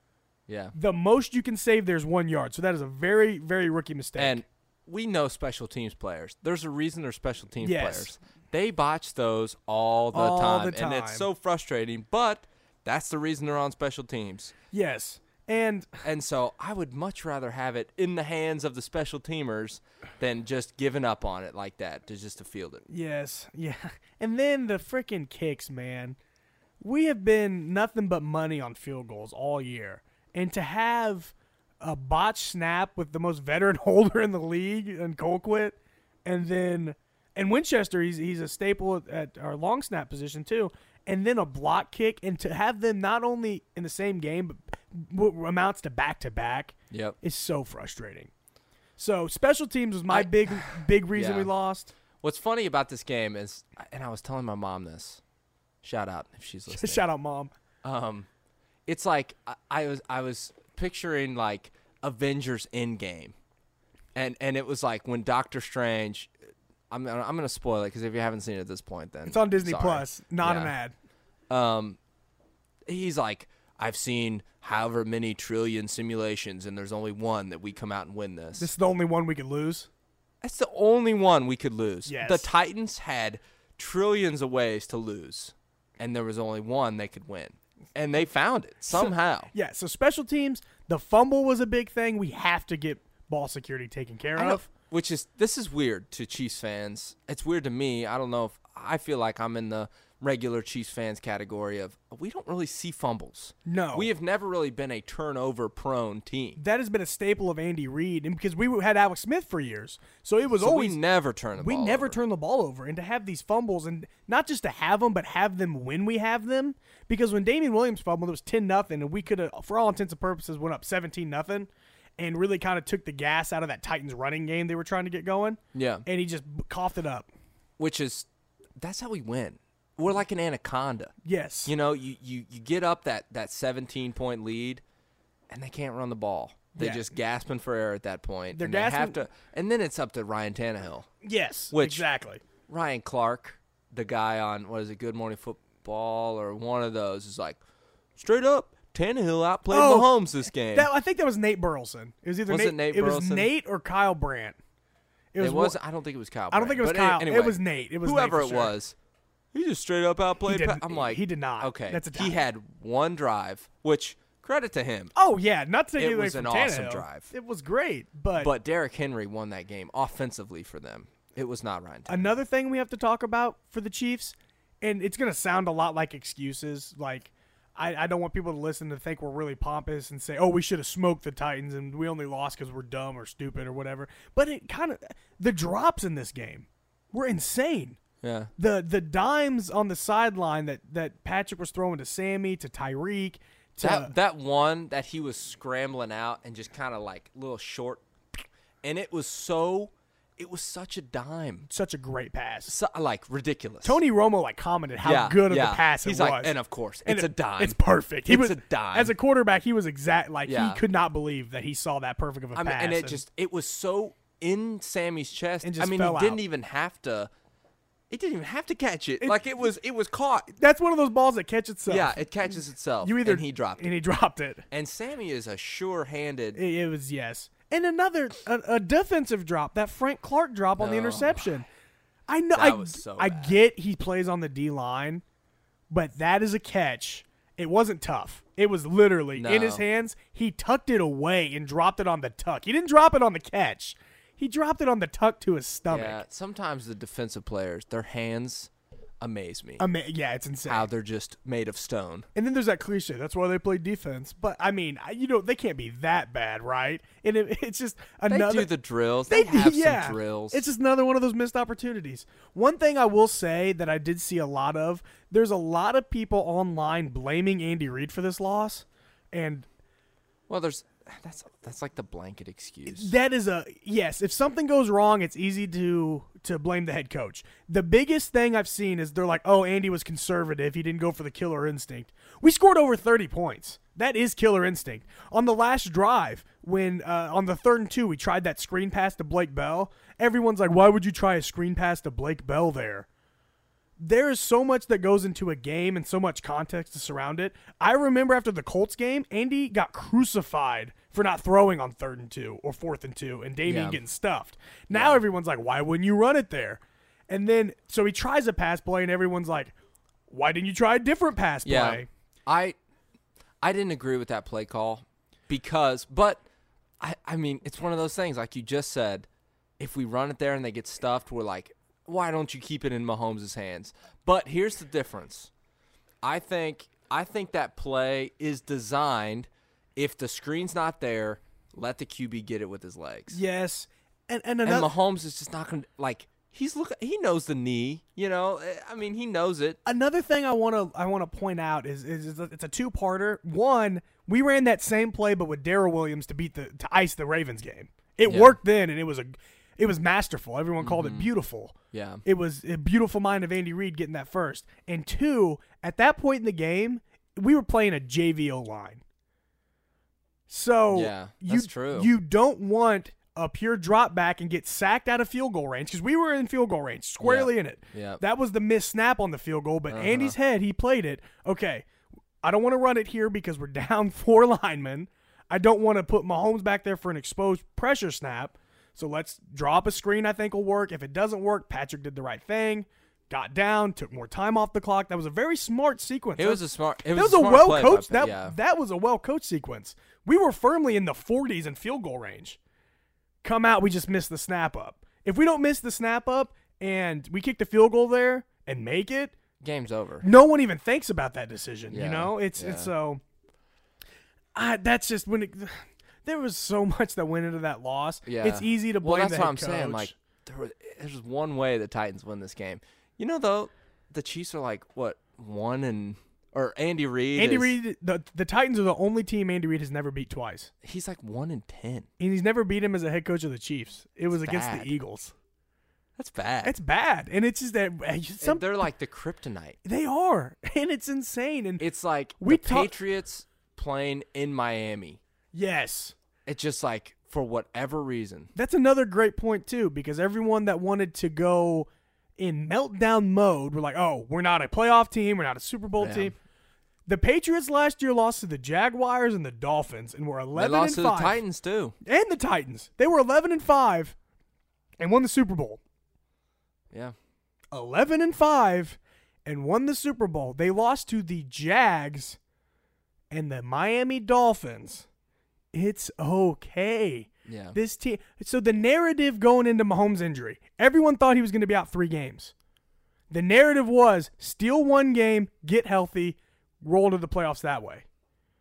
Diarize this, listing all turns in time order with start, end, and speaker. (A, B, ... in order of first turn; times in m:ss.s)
0:00.5-0:00.7 A
0:00.7-0:04.4 B
0:04.2-0:14.5 A
0:07.6-0:08.1 B
0:10.1-0:11.3 B
0:14.7-0:16.0 B
0:16.0-0:22.8 A
0:22.9-0:26.2 B
0:26.8-0:48.3 B
0:46.9-0:47.2 A
0:49.0-0:51.9 B
0:50.1-0:51.5 A
0:52.2-0:55.2 A
0:55.8-0:57.0 A
0:56.7-0:57.5 B
0:57.8-0:58.3 A
0:58.8-1:03.3 A
1:04.1-1:06.3 A
1:06.9-1:10.7 A
1:09.3-1:10.9 B
1:11.5-1:12.0 A
1:12.8-1:18.7 A
1:18.6-1:19.9 B
1:20.4-1:29.5 A
1:22.0-1:22.5 B
1:28.9-1:34.7 B
1:34.4-1:46.6 A
1:43.6-1:44.1 B
1:46.6-1:51.0 B
1:50.6-1:52.2 A
1:51.6-2:07.3 B
2:05.7-2:06.0 A
2:07.8-2:11.1 A
2:11.2-2:11.7 B
2:11.6-2:14.8 A
2:15.5-2:21.1 A
2:16.8-2:17.1 B
2:18.5-2:19.2 B
2:21.2-2:22.4 B
2:21.7-2:22.0 A
2:22.7-2:27.6 A
2:28.2-2:30.9 A
2:29.7-2:34.6 B
2:32.5-2:33.5 A
2:35.3-2:35.8 B
2:35.4-2:38.9 A
2:36.5-2:38.7 B
2:39.5-2:45.1 A
2:40.4-2:42.4 B
2:45.2-2:48.5 B
2:46.0-2:47.3 A
2:48.4-2:52.3 A
2:52.1-3:08.0 B
3:08.2-3:08.5 A
3:08.6-3:14.1 B
3:13.8-3:21.7 A
3:21.7-3:22.7 B
3:22.6-3:24.0 A
3:23.8-3:26.5 B
3:25.0-3:29.1 A
3:27.0-3:33.2 B
3:30.4-3:30.8 A
3:32.5-3:37.3 A
3:35.6-3:36.4 B
3:38.1-3:40.5 A
3:39.2-3:39.5 B
3:40.6-3:42.3 B
3:41.9-3:43.9 A
3:43.0-3:44.6 B
3:44.7-3:46.6 A
3:46.5-3:51.7 B
3:50.8-3:51.6 A
3:52.3-3:55.2 B
3:52.5-3:53.6 A
3:55.9-4:06.2 B
3:59.4-3:59.8 A
4:05.9-4:08.7 A
4:09.2-4:09.8 A
4:09.8-4:10.9 B
4:10.6-4:12.3 A
4:12.3-4:18.7 B
4:18.3-4:20.7 A
4:19.3-4:29.7 B
4:30.5-4:33.1 A
4:32.8-4:53.1 B
4:54.0-5:09.7 B
5:03.6-5:04.0 A
5:04.9-5:05.2 A
5:10.3-5:12.1 B
5:11.6-5:12.8 A
5:13.6-5:16.4 A
5:17.0-5:19.3 A
5:19.8-5:25.5 A
5:26.2-5:33.4 A
5:33.3-5:34.9 B
5:34.6-5:39.8 A
5:39.8-5:59.0 B
5:48.2-5:48.6 A
5:50.8-5:51.3 A
5:51.9-5:52.2 A
6:00.5-6:11.8 B
6:00.9-6:02.1 A
6:07.2-6:08.2 A
6:09.9-6:10.4 A
6:12.4-6:32.6 B
6:26.4-6:28.6 A
6:33.4-6:39.3 B
6:39.6-6:40.2 A
6:40.2-6:43.2 B
6:41.9-6:42.9 A
6:44.5-6:50.1 B
6:48.2-6:57.7 A
6:57.4-7:00.7 B
7:00.8-7:02.1 A
7:02.2-7:05.3 B
7:04.3-7:04.9 A
7:06.2-7:06.8 A
7:06.6-7:08.9 B
7:08.4-7:09.8 A
7:09.8-7:11.8 B
7:11.8-7:15.2 A
7:12.4-7:12.9 B
7:15.5-7:16.1 B
7:16.4-7:18.5 A
7:18.5-7:26.3 B
7:26.0-7:26.3 A
7:27.1-7:31.4 B
7:30.5-7:31.9 A
7:32.0-7:34.1 B
7:35.0-7:35.8 B
7:37.7-7:42.4 B
7:43.3-7:45.1 B
7:45.7-7:52.5 B
7:47.4-7:47.8 A
7:53.3-7:58.0 B